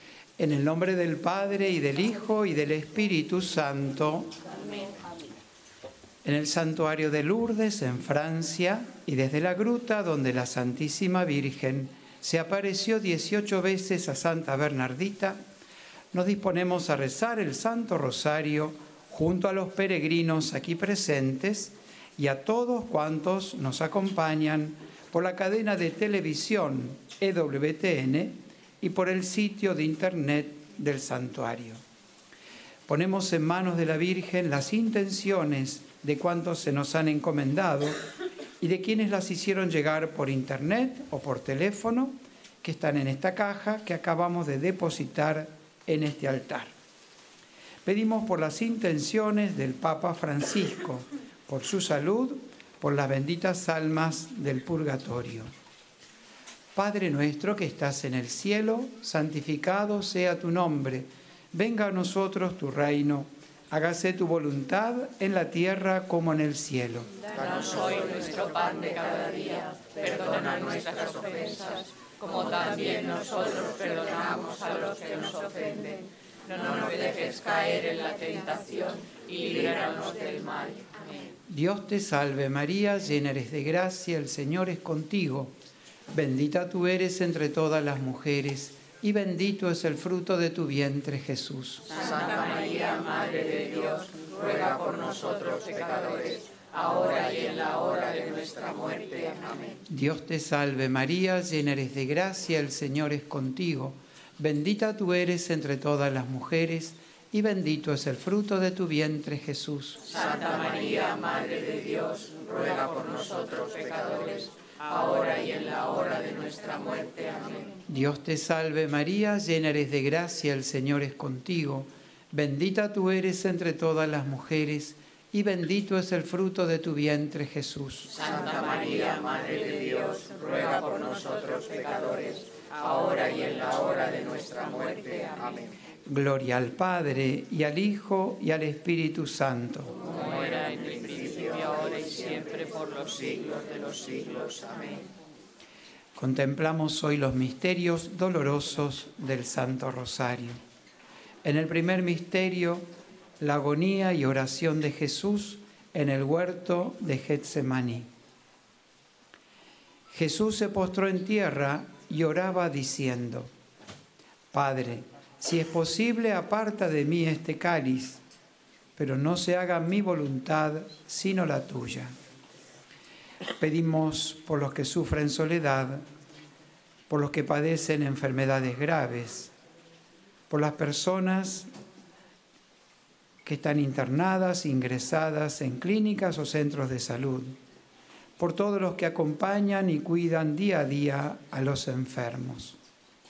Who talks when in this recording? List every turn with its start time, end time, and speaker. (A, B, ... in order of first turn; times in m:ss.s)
0:00.4-0:04.4 A
0:06.2-0:15.4 A
0:16.1-0:31.8 A
0:32.9-0:38.0 A
0:38.6-0:46.7 A
0:47.8-0:55.5 A
0:56.8-1:07.1 A
1:07.3-1:21.0 B
1:21.5-1:25.5 A
1:26.1-1:31.9 A
1:31.9-1:39.8 B
1:39.9-1:50.0 A
1:50.0-1:57.7 B
1:57.9-2:08.1 A
2:08.1-2:15.6 B
2:16.1-2:19.9 A
2:20.0-2:25.1 B
2:26.2-2:30.6 A
2:31.4-2:32.8 A
2:33.4-2:38.1 A
2:40.1-2:43.5 A
2:44.5-2:48.2 A
2:49.0-2:52.1 A
2:53.6-2:56.0 A
2:57.1-2:59.5 A
3:00.5-3:01.7 A
3:03.4-3:07.6 A
3:08.4-3:12.8 A